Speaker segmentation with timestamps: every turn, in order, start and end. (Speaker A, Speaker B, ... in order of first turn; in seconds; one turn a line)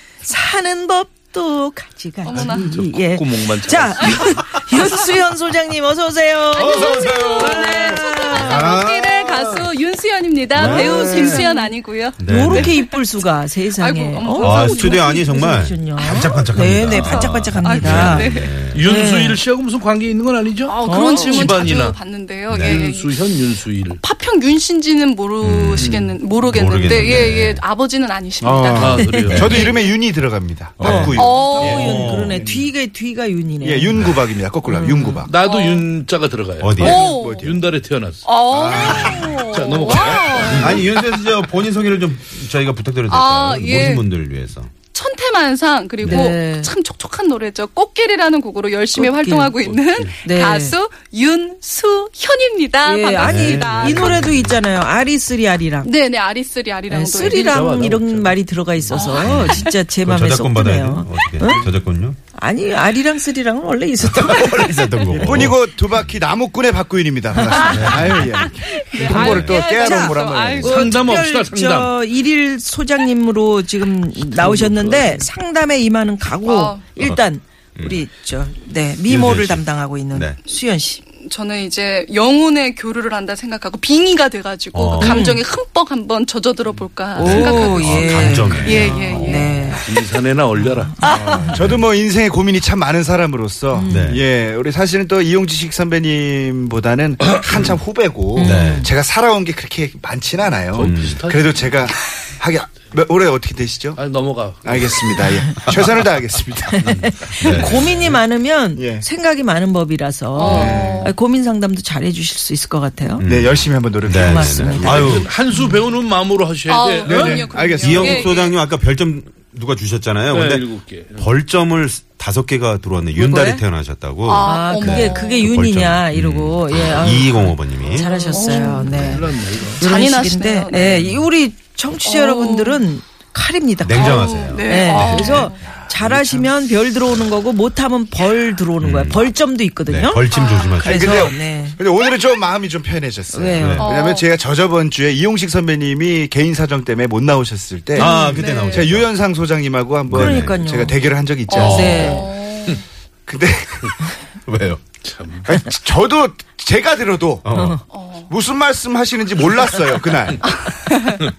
Speaker A: 0.2-8.7
Speaker B: 2.2-2.8
Speaker C: 2.3-4.3
Speaker B: 4.0-4.3
Speaker B: 6.5-12.8
Speaker D: 6.6-9.7
Speaker D: 10.5-11.4
Speaker A: 10.6-19.4
Speaker D: 12.2-12.8
Speaker B: 13.8-15.1
Speaker D: 14.4-18.9
Speaker B: 16.0-18.6
Speaker C: 18.7-22.0
Speaker B: 20.7-23.2
Speaker A: 20.9-21.7
Speaker D: 22.5-22.8
Speaker C: 22.6-24.0
Speaker B: 24.0-29.9
Speaker D: 25.4-27.6
Speaker C: 25.8-26.1
Speaker E: 27.0-27.3
Speaker E: 28.4-32.6
Speaker C: 28.7-29.7
Speaker A: 29.0-29.5
Speaker D: 29.3-29.7
Speaker D: 30.8-32.5
Speaker A: 30.8-34.0
Speaker B: 31.1-32.1
Speaker E: 33.6-35.3
Speaker A: 34.7-35.2
Speaker B: 34.8-35.9
Speaker C: 35.2-40.9
Speaker D: 36.6-37.1
Speaker B: 36.8-37.5
Speaker E: 36.8-37.6
Speaker B: 38.2-40.8
Speaker E: 38.5-39.4
Speaker D: 38.5-39.4
Speaker D: 40.4-44.7
Speaker B: 43.1-44.1
Speaker B: 44.9-54.2
Speaker D: 46.0-46.3
Speaker A: 46.0-46.7
Speaker A: 49.0-49.6
Speaker C: 49.6-50.2
Speaker A: 50.2-50.8
Speaker A: 52.9-55.9
Speaker D: 53.2-54.6
Speaker B: 55.8-57.7
Speaker A: 56.9-61.6
Speaker C: 57.2-58.4
Speaker B: 58.9-59.8
Speaker D: 59.2-62.2
Speaker A: 62.3-65.4
Speaker D: 64.0-66.1
Speaker E: 65.1-71.1
Speaker A: 67.5-67.9
Speaker B: 67.6-67.9
Speaker D: 67.7-68.3
Speaker B: 68.6-70.9
Speaker A: 69.0-81.0
Speaker D: 69.1-69.6
Speaker C: 70.6-71.9
Speaker C: 74.2-75.2
Speaker B: 76.5-76.9
Speaker D: 77.8-78.0
Speaker D: 79.0-80.4
Speaker B: 81.1-89.6
Speaker D: 84.7-85.2
Speaker A: 85.0-85.4
Speaker A: 87.1-89.9
Speaker D: 87.2-89.7
Speaker C: 89.8-91.2
Speaker A: 91.0-91.5
Speaker E: 91.0-104.0
Speaker D: 91.6-91.8
Speaker A: 93.7-94.2
Speaker D: 93.9-94.2
Speaker C: 97.3-97.6
Speaker A: 98.4-98.9
Speaker D: 98.4-98.9
Speaker C: 100.7-101.7
Speaker D: 100.8-101.2
Speaker C: 104.0-105.2
Speaker E: 104.6-107.7
Speaker A: 106.8-113.2
Speaker C: 106.8-107.1
Speaker D: 107.4-108.2
Speaker E: 108.8-109.0
Speaker B: 110.4-111.1
Speaker E: 110.4-111.1
Speaker D: 113.2-115.3
Speaker E: 113.2-115.3
Speaker A: 114.1-115.8
Speaker C: 114.9-117.5
Speaker B: 116.7-118.5
Speaker E: 117.1-118.3
Speaker D: 117.8-128.1
Speaker C: 120.3-121.3
Speaker A: 123.2-123.6
Speaker B: 124.2-125.4
Speaker A: 124.4-141.8
Speaker B: 128.0-129.0
Speaker D: 128.9-129.3
Speaker C: 128.9-129.8
Speaker B: 129.8-131.1
Speaker B: 132.1-132.8
Speaker D: 133.8-135.5
Speaker B: 133.9-135.6
Speaker E: 135.2-136.5
Speaker D: 138.8-139.3
Speaker D: 139.9-141.3
Speaker B: 140.3-140.7
Speaker E: 140.8-148.2
Speaker A: 143.3-143.9
Speaker D: 143.6-143.9
Speaker B: 143.8-144.2
Speaker D: 148.0-149.1
Speaker A: 148.0-148.6
Speaker B: 148.2-148.9
Speaker E: 148.7-152.2
Speaker D: 150.1-150.6
Speaker A: 150.1-151.0
Speaker B: 151.5-152.8
Speaker D: 151.5-152.2
Speaker A: 151.6-152.3
Speaker E: 153.3-154.0
Speaker D: 154.5-154.8
Speaker C: 155.0-155.5
Speaker E: 155.4-157.5
Speaker D: 157.4-157.8
Speaker A: 157.5-157.8
Speaker B: 157.9-158.3
Speaker E: 158.3-160.6
Speaker B: 160.5-161.2